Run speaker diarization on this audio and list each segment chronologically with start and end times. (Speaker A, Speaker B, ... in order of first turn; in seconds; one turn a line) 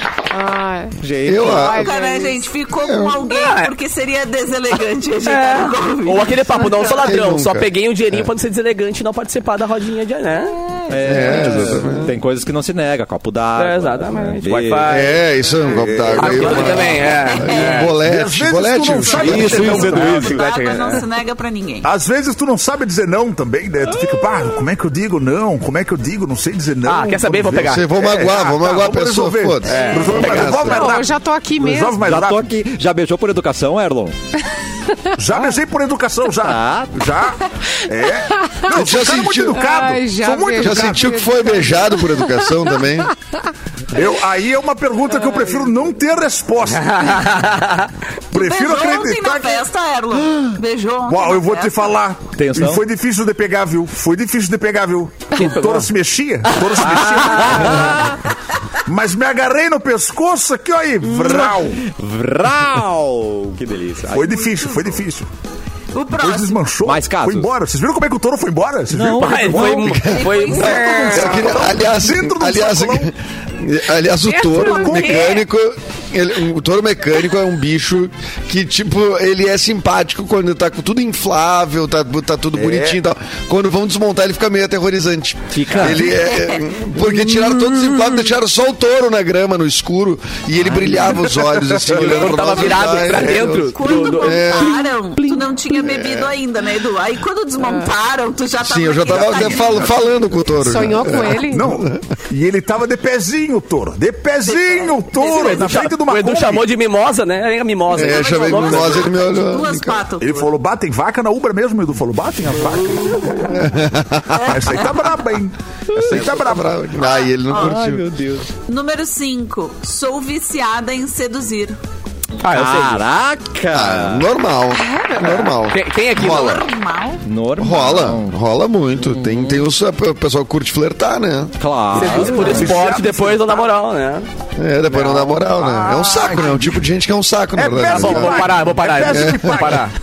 Speaker A: 0.3-2.4
Speaker B: 1.0-1.8
Speaker C: 1.2-1.9
Speaker D: 1.7-7.1
Speaker C: 2.8-3.2
Speaker E: 3.3-3.7
Speaker E: 5.2-10.7
Speaker C: 6.9-7.7
Speaker B: 10.9-15.0
Speaker C: 11.0-12.1
Speaker E: 13.6-15.2
Speaker C: 14.9-19.6
Speaker F: 15.7-16.8
Speaker E: 16.1-17.9
Speaker D: 17.1-17.9
Speaker F: 18.0-20.3
Speaker D: 18.8-21.9
Speaker B: 19.1-20.4
Speaker E: 19.6-21.0
Speaker F: 21.8-32.5
Speaker E: 26.9-27.9
Speaker C: 27.7-30.9
Speaker E: 29.6-30.7
Speaker A: 30.6-32.0
Speaker B: 32.0-34.1
Speaker F: 35.2-41.2
Speaker B: 36.4-36.9
Speaker A: 38.4-38.7
Speaker C: 38.7-39.7
Speaker A: 39.5-42.5
Speaker C: 40.6-43.1
Speaker F: 43.9-47.4
Speaker E: 46.7-47.9
Speaker F: 48.3-49.6
Speaker D: 48.3-52.0
Speaker F: 51.1-57.8
Speaker B: 52.3-52.8
Speaker E: 55.3-55.9
Speaker E: 56.6-58.1
Speaker D: 57.5-58.1
Speaker B: 57.5-58.1
Speaker F: 58.9-61.9
Speaker B: 61.1-64.3
Speaker F: 64.1-65.3
Speaker D: 64.1-65.0
Speaker D: 65.9-66.7
Speaker F: 66.2-70.0
Speaker B: 66.8-67.5
Speaker B: 68.9-69.9
Speaker E: 69.1-71.7
Speaker C: 69.9-94.7
Speaker D: 69.9-71.5
Speaker F: 71.0-73.1
Speaker E: 74.3-75.4
Speaker D: 74.7-75.1
Speaker F: 82.5-83.0
Speaker B: 85.5-86.0
Speaker D: 85.8-86.7
Speaker B: 90.6-91.0
Speaker E: 91.9-94.9
Speaker D: 92.0-100.0
Speaker B: 95.2-95.5
Speaker C: 95.8-96.3
Speaker C: 98.6-102.0
Speaker A: 100.5-101.7
Speaker F: 101.4-106.7
Speaker D: 104.4-105.7
Speaker E: 105.1-109.1
Speaker D: 107.9-110.5
Speaker C: 107.9-110.0
Speaker F: 110.2-113.5
Speaker C: 113.5-114.6
Speaker D: 114.3-115.1
Speaker F: 114.5-116.8
Speaker C: 116.0-118.1
Speaker D: 117.0-117.8
Speaker B: 117.5-118.5
Speaker D: 118.7-121.8
Speaker E: 122.4-123.0
Speaker B: 122.5-124.3
Speaker C: 123.7-126.6
Speaker E: 125.5-126.6
Speaker D: 126.2-127.2
Speaker B: 127.2-128.3
Speaker C: 127.6-131.6
Speaker B: 129.0-129.6
Speaker B: 131.6-132.8
Speaker E: 131.9-134.2
Speaker F: 131.9-133.7
Speaker C: 134.6-138.6
Speaker E: 134.9-135.4
Speaker F: 135.6-136.7
Speaker F: 137.5-139.9
Speaker E: 137.8-139.9
Speaker C: 139.1-139.6